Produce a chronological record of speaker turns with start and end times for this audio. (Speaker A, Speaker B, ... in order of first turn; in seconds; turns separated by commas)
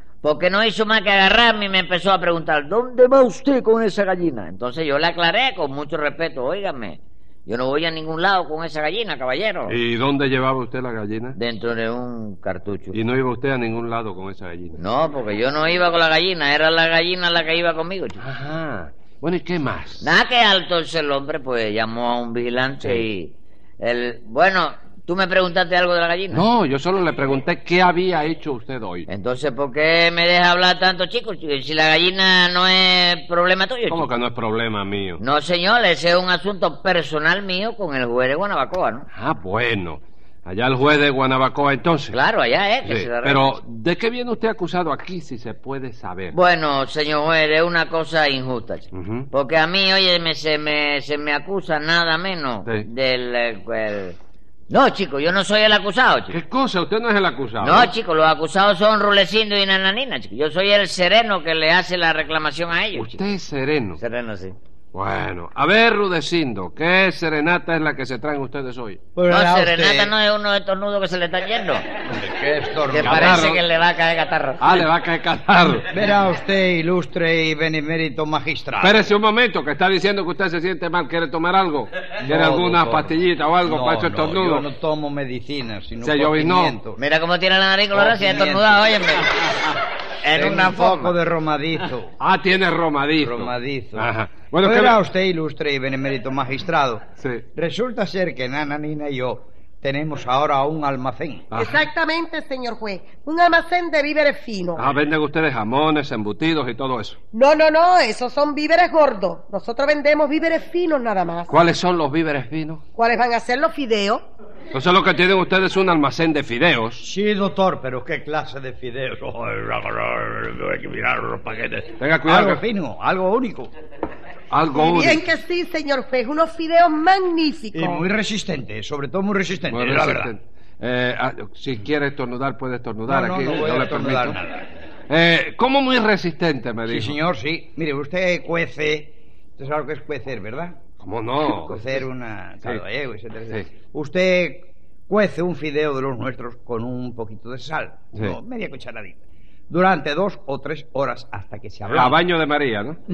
Speaker A: 0.2-9.8, Speaker B: 9.7-11.4, Speaker A: 11.4-13.0, Speaker B: 12.9-14.8, Speaker A: 14.8-18.2, Speaker B: 18.2-20.1, Speaker A: 20.0-26.4, Speaker B: 26.3-29.1, Speaker A: 29.1-34.1, Speaker B: 33.9-35.2, Speaker A: 35.2-39.1, Speaker B: 39.1-42.2, Speaker A: 42.1-43.6, Speaker B: 42.8-46.4, Speaker A: 46.3-54.2, Speaker B: 48.9-49.3, Speaker A: 54.7-56.4, Speaker B: 56.3-57.9, Speaker A: 57.6-63.4, Speaker B: 62.9-64.0, Speaker A: 64.0-64.6, Speaker B: 64.9-69.0, Speaker C: 69.2-70.1, Speaker A: 69.3-71.8, Speaker C: 72.1-73.4, Speaker A: 72.9-74.6, Speaker B: 73.0-73.6, Speaker B: 74.6-75.9, Speaker C: 75.9-79.0, Speaker B: 78.8-84.7, Speaker C: 82.2-83.1, Speaker C: 83.7-87.0, Speaker B: 86.0-86.8, Speaker A: 87.0-89.7, Speaker C: 87.9-88.9, Speaker A: 90.2-91.2, Speaker C: 90.3-92.1, Speaker B: 92.2-95.0, Speaker C: 93.2-94.1, Speaker C: 94.6-97.0, Speaker C: 97.5-101.5, Speaker B: 101.5-101.8, Speaker D: 101.5-104.8, Speaker B: 104.8-107.2, Speaker D: 107.3-111.6, Speaker B: 111.5-112.8, Speaker D: 113.0-114.2, Speaker B: 114.7-117.0, Speaker C: 117.0-123.7, Speaker B: 122.0-122.6, Speaker B: 124.5-125.2, Speaker D: 124.7-128.1, Speaker C: 127.7-130.3, Speaker B: 129.7-134.4, Speaker C: 133.1-134.7, Speaker B: 135.1-137.2, Speaker C: 136.9-140.8, Speaker B: 141.0-141.9, Speaker C: 141.4-149.2, Speaker C: 149.7-152.2, Speaker B: 151.9-153.0